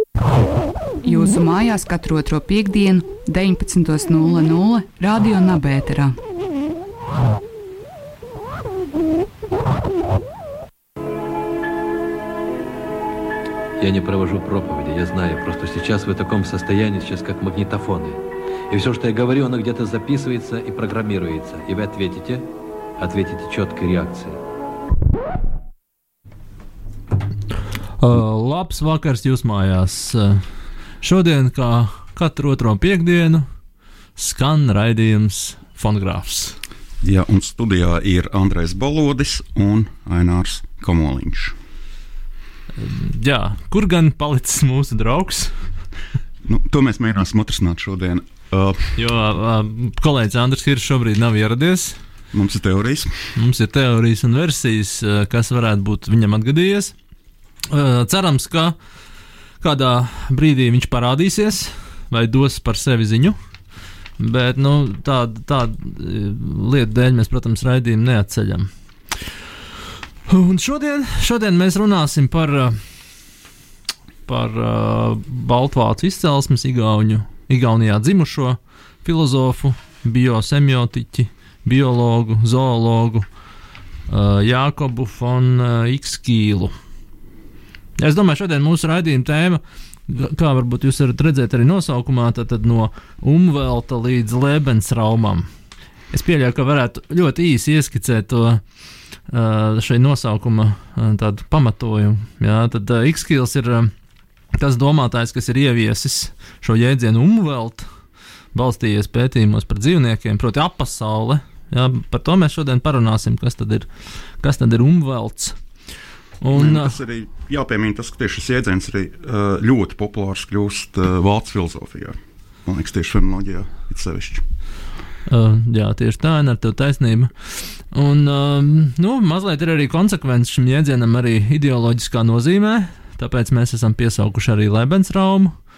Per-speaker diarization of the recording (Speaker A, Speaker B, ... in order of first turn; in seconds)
Speaker A: 1.0-6.2
Speaker B: 13.8-22.5, 23.0-24.4
Speaker C: 28.0-30.4, 31.0-33.5, 34.2-36.5, 42.8-45.7, 49.0-52.0, 53.4-56.9, 57.7-58.8, 59.6-63.4, 64.2-68.7, 70.3-72.8, 74.3-83.3, 84.1-86.7, 88.0-95.5, 96.1-98.6, 99.3-103.9, 104.6-107.9, 108.5-113.9, 114.4-115.6, 116.4-117.0, 125.3-135.5
Speaker D: 37.0-41.5, 46.4-49.0, 52.3-53.3, 116.5-124.4